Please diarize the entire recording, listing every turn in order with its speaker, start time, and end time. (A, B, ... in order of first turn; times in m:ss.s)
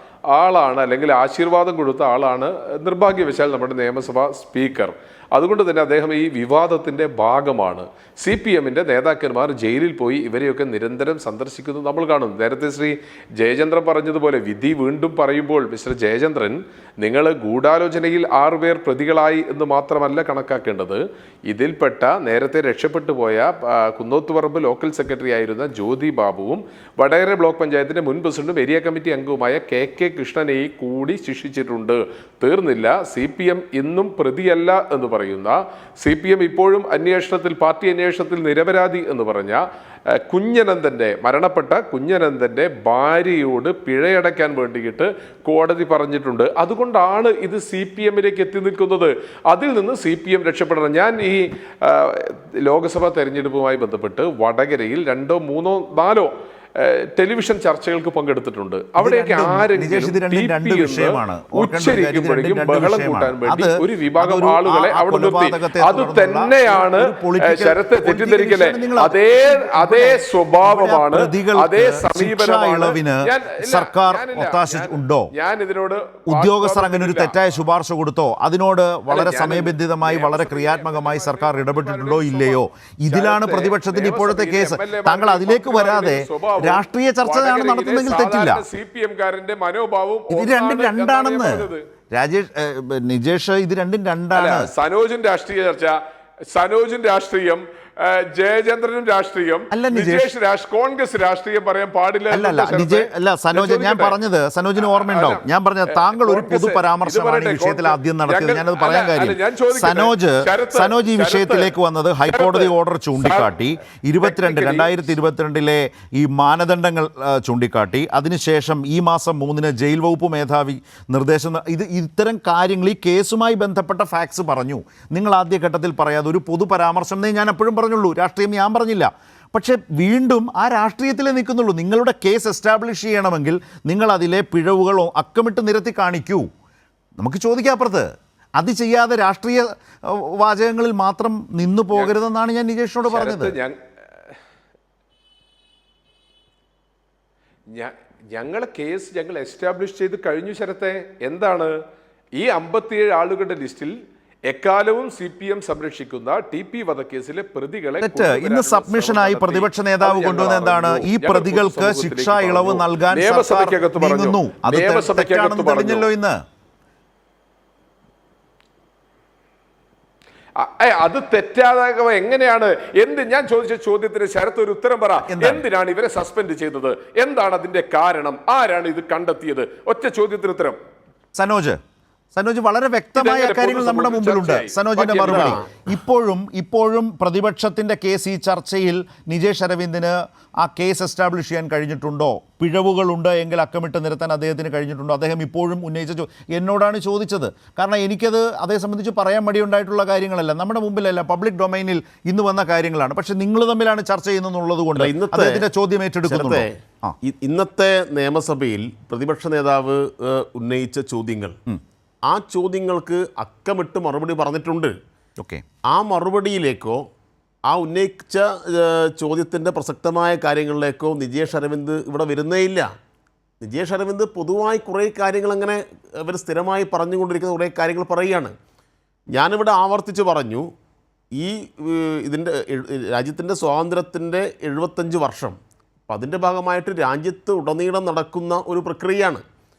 0:00.3-1:17.4 A
0:59.0-1:15.3 B
1:16.3-1:28.6 B
1:19.1-1:31.8 A
1:30.3-1:34.7 B
1:34.4-1:36.0 A
1:36.5-1:44.2 A
1:39.7-1:40.3 B
1:42.3-2:16.5 B
1:44.8-1:51.8 A
1:52.3-1:53.6 A
1:54.2-1:55.1 A
2:17.2-2:18.1 B
2:18.6-2:23.6 B
2:23.0-2:24.4 A
2:27.7-2:31.7 A
2:32.4-2:34.0 A
2:34.5-2:46.1 A
2:38.0-2:46.4 B
2:50.6-3:00.8 A
2:55.3-2:55.6 B
3:01.4-3:01.8 B
3:02.3-3:27.2 B
3:03.2-3:05.6 A
3:05.2-3:05.6 C
3:25.0-3:25.6 C
3:26.3-3:31.6 C
3:32.3-3:34.9 C
3:35.9-3:37.0 C
3:37.7-3:42.9 C
3:43.6-3:48.5 C
3:49.3-3:50.7 C
3:51.4-3:55.6 C
3:56.1-3:59.4 C